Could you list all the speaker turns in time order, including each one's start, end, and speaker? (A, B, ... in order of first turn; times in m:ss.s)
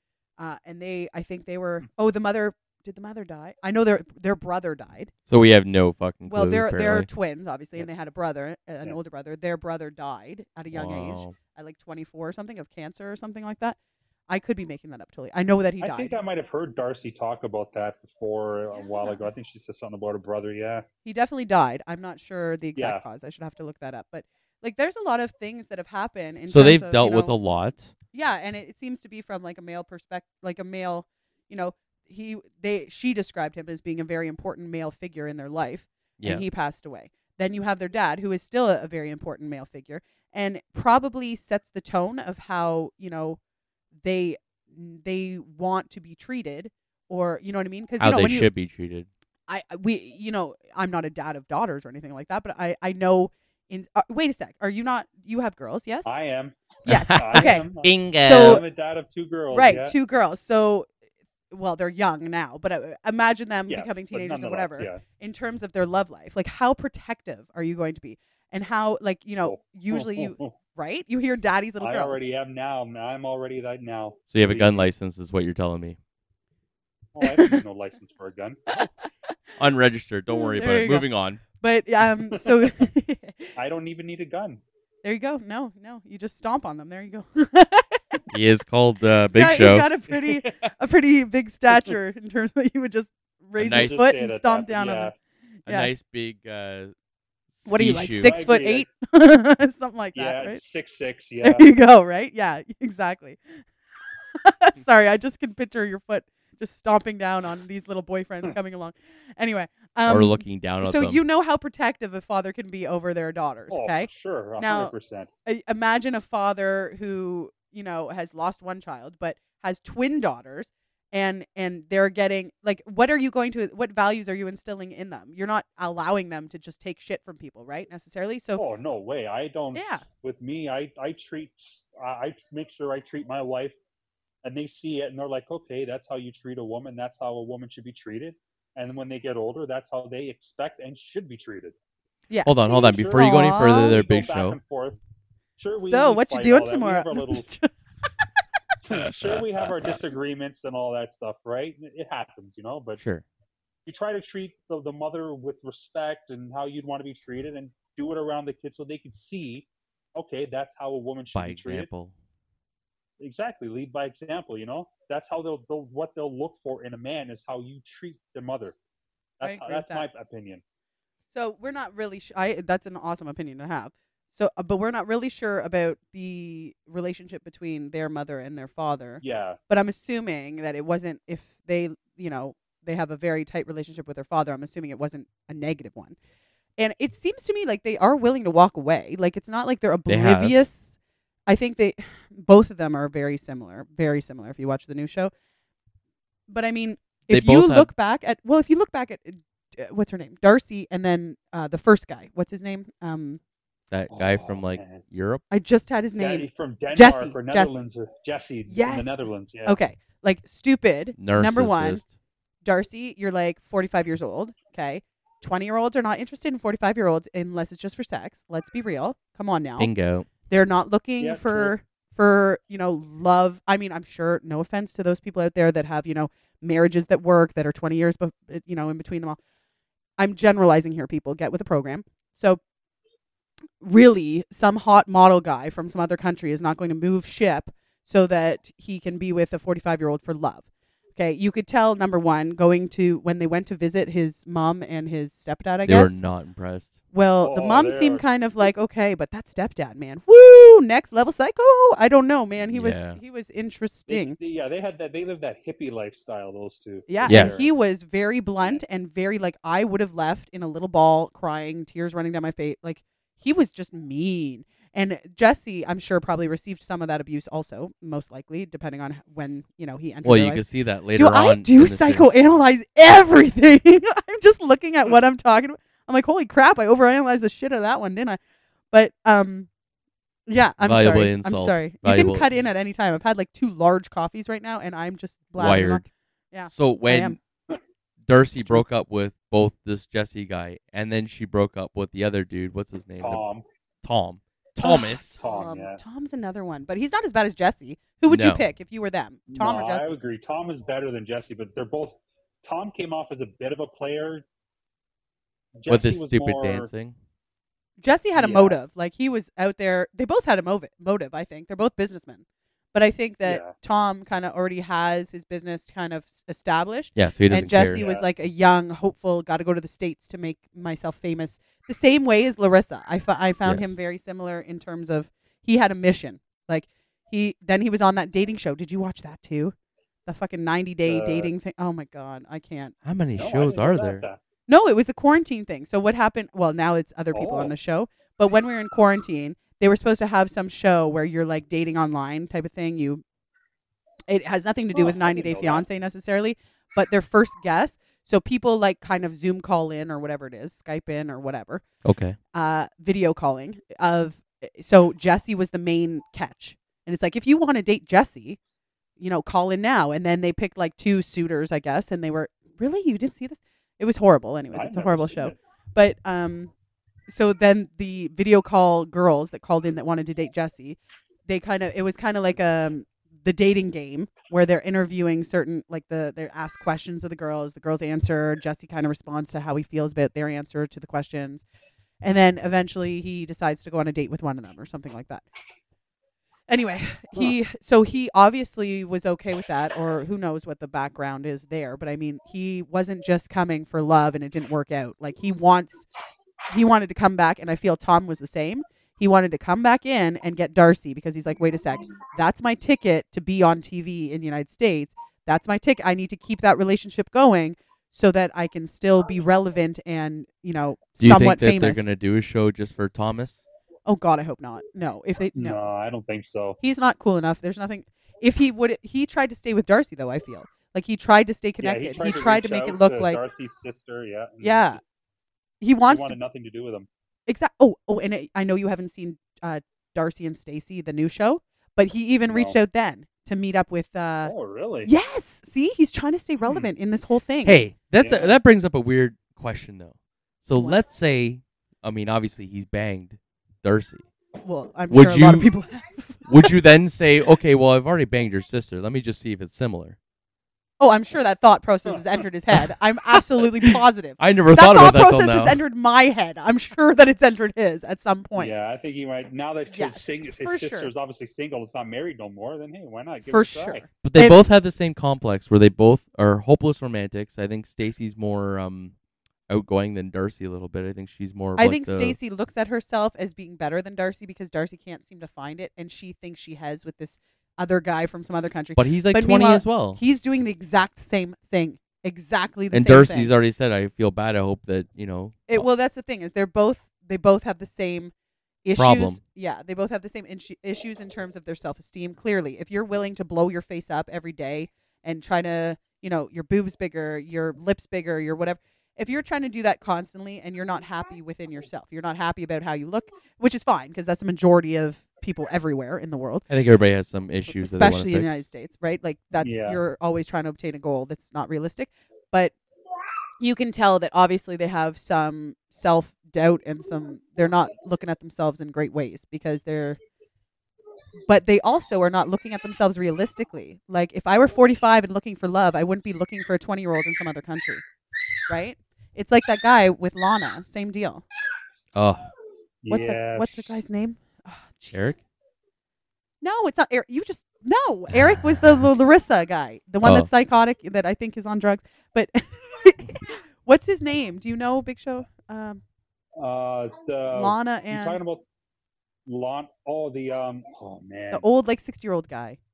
0:00.4-0:05.1 A
0:05.3-0:07.1 B
0:06.3-0:13.8 A
0:10.7-0:11.4 B
0:14.3-0:16.2 A
0:15.8-0:20.8 C
0:18.7-0:19.3 A
0:21.0-0:27.4 A
0:22.8-0:23.0 C
0:26.5-0:27.9 B
0:28.1-0:43.4 A
0:36.2-0:36.4 B
0:44.0-0:48.5 A
0:48.0-0:49.1 B
0:49.5-0:56.1 A
0:56.1-0:56.6 C
0:56.9-0:58.6 B
0:56.9-0:58.6 A
0:57.2-1:00.0 C
0:59.5-1:00.9 A
1:01.5-1:12.2 A
1:03.7-1:05.0 C
1:09.5-1:10.5 C
1:11.8-1:14.9 C
1:14.3-1:16.0 B
1:17.2-1:18.8 C
1:17.2-1:17.6 A
1:19.6-1:21.4 B
1:20.3-1:23.5 A
1:22.3-1:22.7 C
1:23.6-1:24.6 C
1:25.0-1:28.2 A
1:28.3-1:29.9 B
1:29.3-1:35.1 A
1:33.6-1:34.0 B
1:33.7-1:35.1 C
1:35.7-1:35.9 A
1:35.7-1:36.9 B
1:37.5-1:38.3 B
1:37.7-1:40.6 A
1:38.2-1:38.9 C
1:40.2-1:41.6 C
1:41.4-1:43.6 A
1:44.3-1:54.9 A
1:50.1-1:51.2 B
1:53.7-1:55.3 C
1:55.5-2:08.6 A
2:08.6-2:13.8 C
2:09.7-2:10.0 A
2:14.4-2:21.8 C
2:22.3-2:24.0 A
2:22.4-2:24.6 B
2:22.8-2:25.0 C
2:25.6-2:27.5 C
2:25.8-2:27.7 A
2:28.9-2:33.0 C
2:29.0-2:29.9 B
2:33.0-2:33.2 B
2:33.9-2:41.9 C
2:41.3-2:42.1 B
2:43.2-2:48.8 C
2:49.4-2:50.6 C
2:49.4-2:50.1 A
2:51.3-3:06.2 A
2:59.2-2:59.6 C
3:06.8-3:15.3 A
3:10.1-3:10.6 B
3:16.5-3:23.4 A
3:17.3-3:17.9 B
3:23.9-3:25.4 B
3:24.1-3:25.0 C
3:25.5-3:27.7 A
3:26.2-3:29.8 C
3:28.7-3:32.0 A
3:31.2-3:32.1 B
3:32.6-3:39.9 A
3:39.8-3:40.3 B
3:40.5-3:49.4 A
3:41.2-3:41.7 C
3:50.2-3:52.6 A
3:53.8-4:00.6 A
4:01.2-4:06.2 A
4:05.9-4:07.0 B
4:07.1-4:14.4 A
4:07.4-4:08.2 C
4:12.7-4:13.2 B
4:14.1-4:17.8 C
4:17.1-4:38.4 A
4:17.3-4:17.6 B
4:30.2-4:32.3 B
4:38.9-4:39.7 A
4:40.5-4:47.4 A
4:40.8-4:42.5 B
4:45.6-4:46.0 B
4:46.7-4:47.4 B
4:48.3-4:53.4 B
4:48.6-4:48.8 A
4:53.2-4:53.6 C
4:54.0-4:55.4 B
4:54.8-5:00.2 A
4:55.4-4:56.0 C
4:58.3-4:58.6 B
4:59.5-5:04.4 C
5:05.8-5:06.9 C
5:05.9-5:07.2 B
5:08.0-5:29.8 A
5:08.4-5:08.8 C
5:13.4-5:13.7 C
5:17.2-5:18.0 B
5:17.8-5:18.3 C
5:23.6-5:24.0 B
5:30.3-5:33.0 A
5:31.0-5:31.5 C
5:33.0-5:34.2 B
5:33.4-5:34.4 C
5:34.7-5:43.2 A
5:37.3-5:37.7 C
5:44.3-5:51.8 A
5:44.9-5:45.8 C
5:52.0-5:52.4 B
5:52.5-5:58.6 A
5:59.2-6:06.7 A
6:04.7-6:05.6 C
6:07.3-6:21.6 A
6:22.2-6:25.5 A
6:26.7-6:36.1 A
6:36.7-6:52.0 A
6:51.2-6:53.6 B
6:54.1-6:55.8 A
6:55.6-6:56.8 C
6:56.8-7:03.4 A
7:01.8-7:05.0 C
7:04.6-7:05.0 A
7:05.8-7:06.4 A
7:06.1-7:07.1 C
7:07.5-7:14.5 A
7:12.5-7:12.8 C
7:14.4-7:15.1 C
7:15.0-7:17.8 A
7:17.6-7:24.3 B
7:18.2-7:18.6 C
7:20.8-7:21.0 A
7:24.6-7:26.8 A
7:25.1-7:25.7 B
7:26.4-7:30.2 B
7:31.0-7:38.7 A
7:34.4-7:35.8 B
7:38.6-7:44.0 C
7:39.9-7:41.1 A
7:43.4-7:44.6 A
7:44.2-7:49.1 B
7:49.7-7:52.4 B
7:51.8-8:03.5 A
7:59.0-8:00.2 B
8:02.9-8:05.9 B
8:05.7-8:08.3 A
8:08.8-8:26.7 A
8:09.0-8:09.4 B
8:26.7-8:28.6 B
8:27.7-8:32.7 A
8:29.6-8:30.0 C
8:33.6-8:40.2 A
8:41.5-8:48.0 A
8:48.7-8:51.4 A
8:52.2-8:52.5 B
8:53.0-8:54.0 C
8:53.1-8:55.3 A
8:55.1-8:55.4 B
8:56.6-9:06.0 A
9:00.2-9:00.5 B
9:06.6-9:08.6 C
9:07.5-9:08.4 A
9:09.5-9:11.6 C
9:11.5-9:12.8 A